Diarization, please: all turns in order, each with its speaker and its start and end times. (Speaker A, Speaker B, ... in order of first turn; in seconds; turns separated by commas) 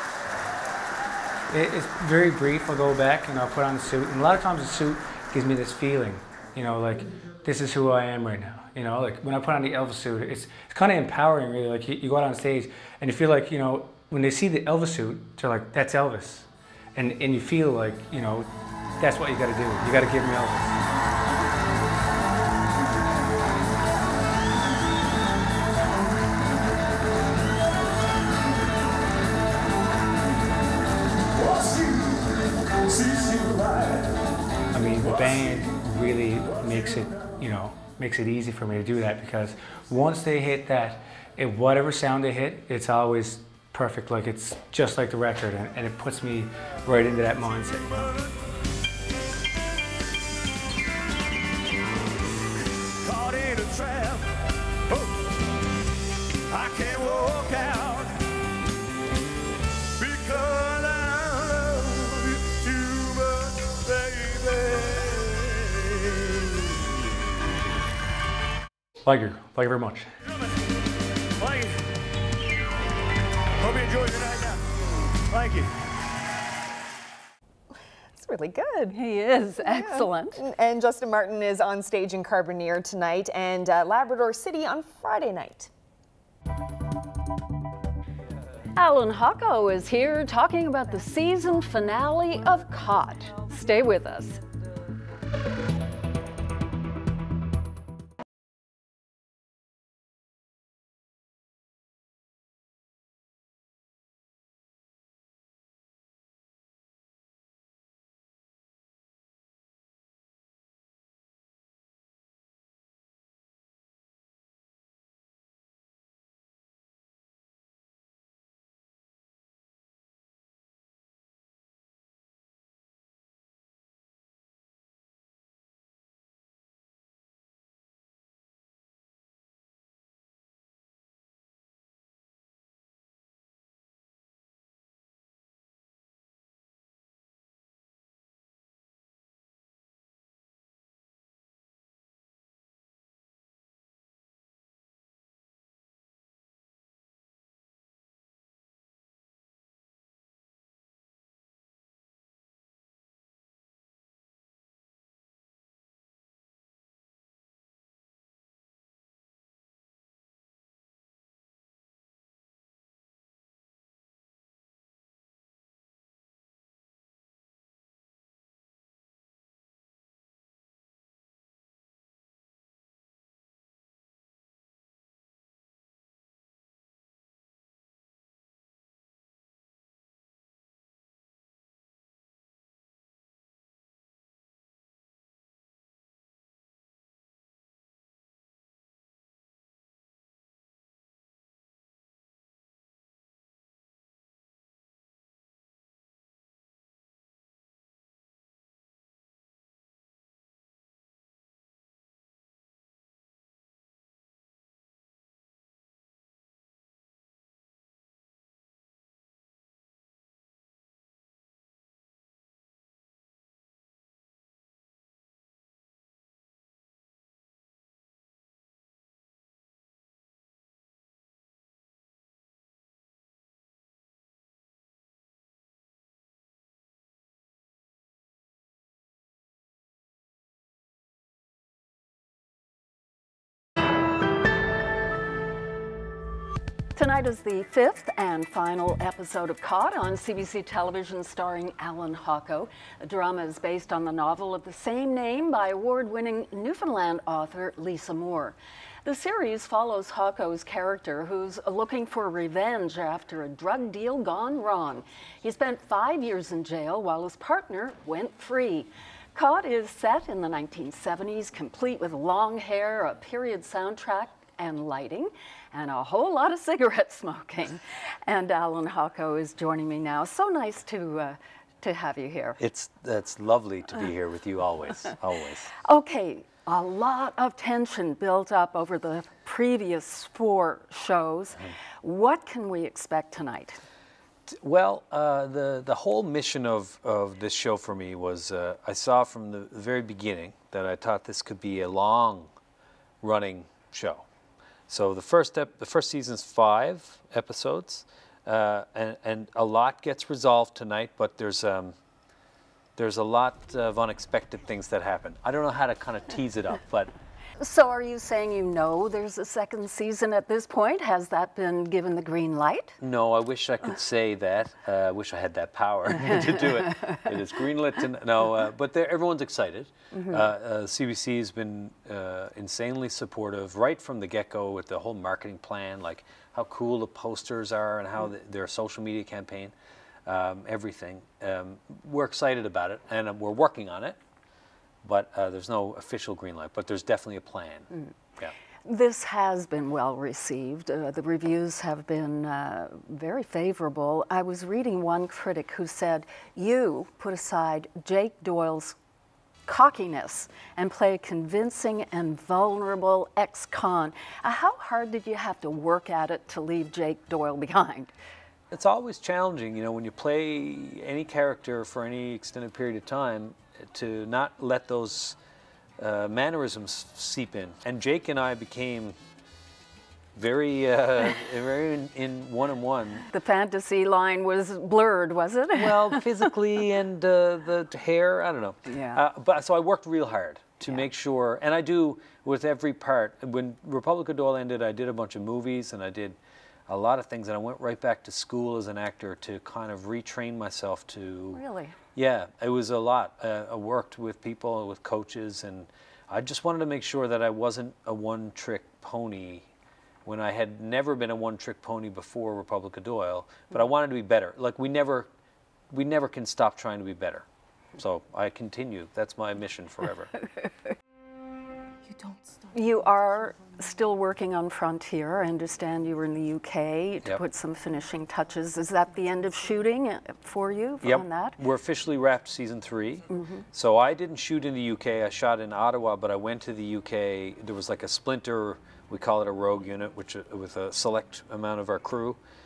Speaker A: 1.5-18.5, Speaker A: 19.0-20.8, Speaker A: 34.7-48.1, Speaker B: 53.0-54.3, Speaker B: 54.9-55.2, Speaker B: 56.5-58.2, Speaker B: 60.0-67.1, Speaker A: 69.0-70.1, Speaker B: 71.4-71.8, Speaker B: 73.6-75.7, Speaker C: 78.1-79.0, Speaker D: 78.9-80.4, Speaker C: 79.6-85.7, Speaker D: 88.8-94.4, Speaker D: 237.0-272.6, Speaker E: 272.6-275.7, Speaker D: 275.8-283.8, Speaker E: 284.5-292.5, Speaker E: 293.2-294.3, Speaker E: 294.9-302.0, Speaker E: 303.0-307.1, Speaker D: 307.6-312.9, Speaker E: 313.0-329.7, Speaker D: 316.2-317.1, Speaker D: 320.1-320.4, Speaker E: 330.3-334.2, Speaker E: 335.0-338.5, Speaker D: 338.9-349.0, Speaker D: 349.7-358.1, Speaker E: 358.7-365.4, Speaker E: 366.0-369.2, Speaker E: 370.4-373.2, Speaker D: 373.3-376.4, Speaker E: 375.7-391.6, Speaker D: 378.9-379.2, Speaker D: 391.5-391.9, Speaker E: 392.1-399.7, Speaker E: 400.2-405.3, Speaker E: 405.9-410.3, Speaker D: 412.7-421.6, Speaker E: 421.0-432.4, Speaker D: 423.3-423.6